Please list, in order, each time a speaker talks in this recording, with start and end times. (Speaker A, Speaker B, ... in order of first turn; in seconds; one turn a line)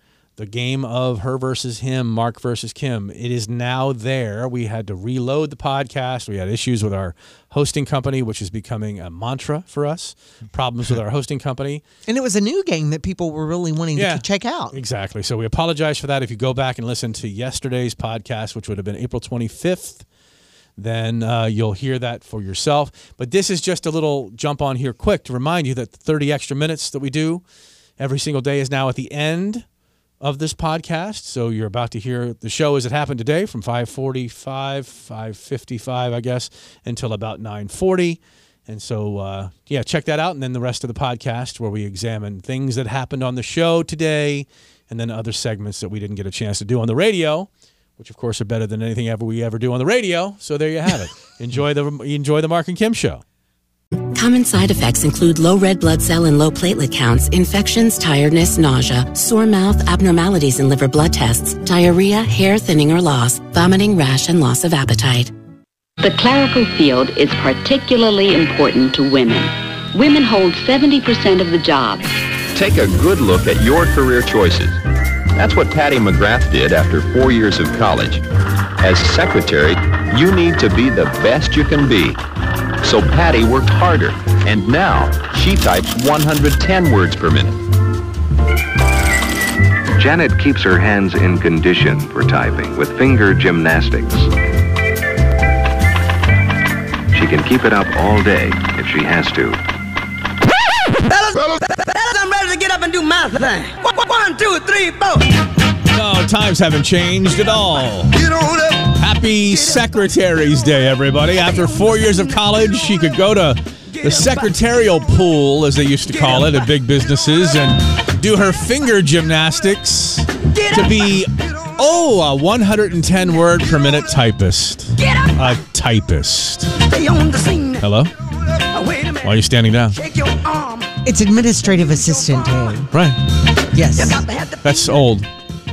Speaker A: 0.4-11.8
Speaker B: 12.1-14.8
Speaker A: 13.9-20.0
Speaker A: 20.8-27.4
Speaker A: 28.0-29.6
Speaker A: 30.2-53.2
Speaker C: 54.1-65.3
Speaker D: 66.0-72.1
Speaker E: 72.5-74.8
Speaker E: 75.3-78.2
Speaker E: 78.8-82.2
Speaker E: 82.8-87.6
Speaker F: 90.0-94.3
Speaker F: 97.1-99.6
Speaker G: 101.1-105.2
Speaker A: 105.9-108.2
Speaker A: 108.8-126.8
Speaker G: 126.9-127.8
Speaker A: 127.8-128.1
Speaker G: 128.8-129.1
Speaker A: 129.2-130.0
Speaker G: 130.4-130.8
Speaker B: 131.0-132.9
Speaker A: 132.9-133.2
Speaker B: 133.7-134.2
Speaker G: 134.0-134.6
Speaker A: 134.6-135.3